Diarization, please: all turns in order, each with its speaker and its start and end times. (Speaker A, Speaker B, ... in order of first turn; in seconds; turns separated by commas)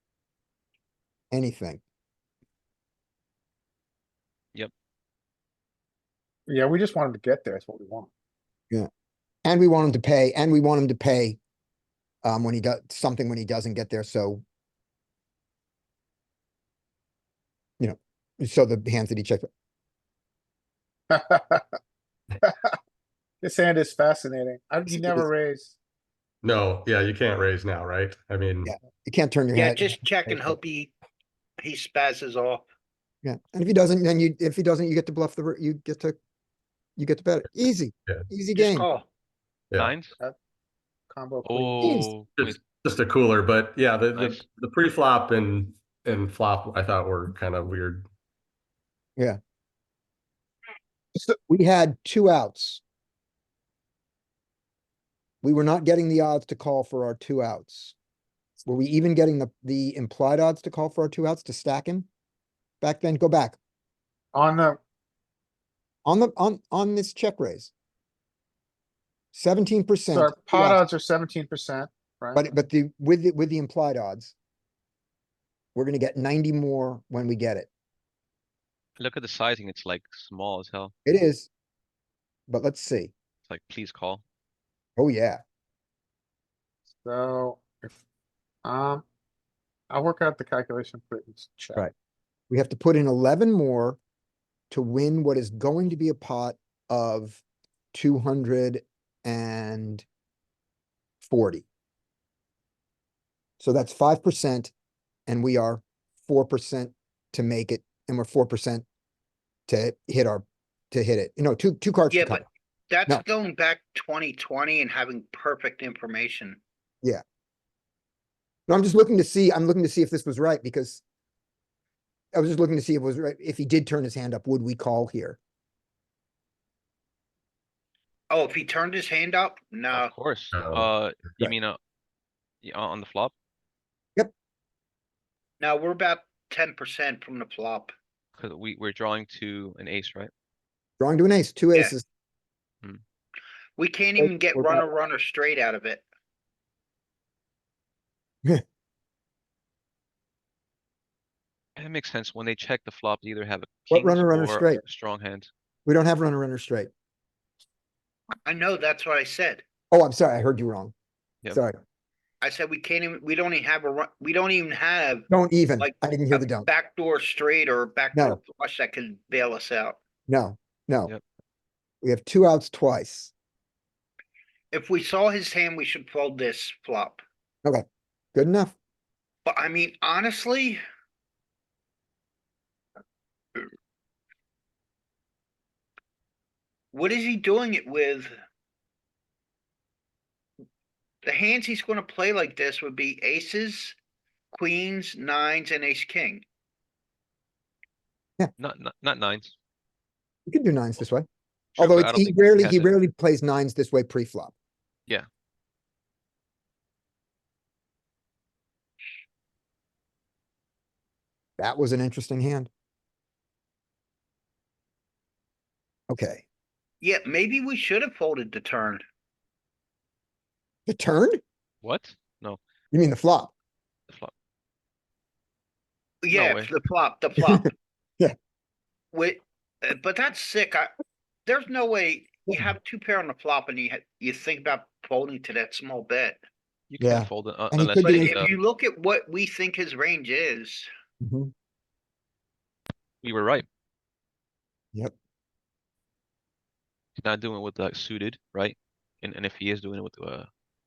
Speaker A: 1.3-1.8, Speaker B: 6.5-8.1, Speaker A: 9.4-11.4, Speaker A: 12.2-14.4, Speaker A: 17.8-19.5, Speaker B: 21.1-21.8, Speaker B: 22.4-22.8, Speaker B: 23.4-25.8, Speaker A: 24.9-25.3, Speaker C: 26.4-28.7, Speaker A: 28.6-30.6, Speaker D: 29.5-30.9, Speaker D: 31.6-32.6, Speaker A: 33.2-36.2, Speaker A: 37.0-38.9, Speaker D: 38.5-39.1, Speaker C: 39.7-40.0, Speaker E: 39.8-40.2, Speaker B: 41.1-42.1, Speaker E: 41.4-42.6, Speaker A: 41.8-42.1, Speaker C: 42.4-48.1, Speaker E: 44.1-44.4, Speaker A: 51.5-52.8, Speaker A: 55.4-58.0, Speaker A: 58.6-62.1, Speaker A: 62.8-63.6, Speaker B: 64.3-64.8, Speaker A: 66.0-67.7, Speaker A: 69.3-70.8, Speaker B: 70.1-72.5, Speaker A: 72.3-74.3, Speaker A: 75.8-77.7, Speaker E: 79.0-80.9, Speaker A: 81.0-81.5, Speaker A: 82.5-83.1, Speaker E: 83.5-84.2, Speaker A: 85.0-85.4, Speaker B: 87.0-88.0, Speaker B: 88.6-89.0, Speaker B: 89.9-91.8, Speaker A: 92.5-94.0, Speaker A: 94.7-97.4, Speaker A: 97.9-100.0, Speaker A: 101.2-101.7, Speaker A: 103.6-104.7, Speaker A: 105.3-108.8, Speaker A: 109.7-112.5, Speaker D: 112.1-116.6, Speaker A: 118.7-121.0, Speaker A: 122.3-125.4, Speaker D: 128.3-130.1, Speaker E: 129.9-131.8, Speaker C: 130.5-130.9, Speaker E: 132.6-133.3, Speaker D: 135.6-137.9, Speaker E: 138.4-140.3, Speaker A: 141.0-142.1, Speaker D: 143.8-146.0, Speaker A: 144.2-144.8, Speaker E: 151.8-155.5, Speaker A: 153.9-154.8, Speaker A: 155.9-156.9, Speaker D: 158.5-159.6, Speaker A: 159.9-160.9, Speaker A: 161.5-161.8, Speaker D: 162.4-165.3, Speaker A: 165.3-166.7, Speaker D: 165.8-170.0, Speaker A: 168.1-168.4, Speaker A: 170.3-171.1, Speaker A: 172.0-173.3, Speaker D: 174.7-177.2, Speaker A: 177.6-178.8, Speaker D: 179.4-180.8, Speaker D: 186.9-188.3, Speaker D: 191.2-193.9, Speaker D: 194.5-196.4, Speaker E: 198.6-199.5, Speaker A: 200.5-204.5, Speaker E: 201.8-203.0, Speaker A: 211.6-212.7, Speaker A: 216.1-216.4, Speaker D: 217.0-219.0, Speaker A: 220.9-221.4, Speaker E: 221.8-222.6, Speaker A: 222.9-223.5, Speaker D: 226.2-227.7, Speaker E: 226.3-226.7, Speaker D: 229.1-230.9, Speaker D: 231.5-236.4, Speaker E: 236.9-238.5, Speaker A: 237.0-238.4, Speaker D: 238.0-240.9, Speaker A: 241.2-241.5, Speaker E: 243.2-243.7, Speaker E: 247.2-250.5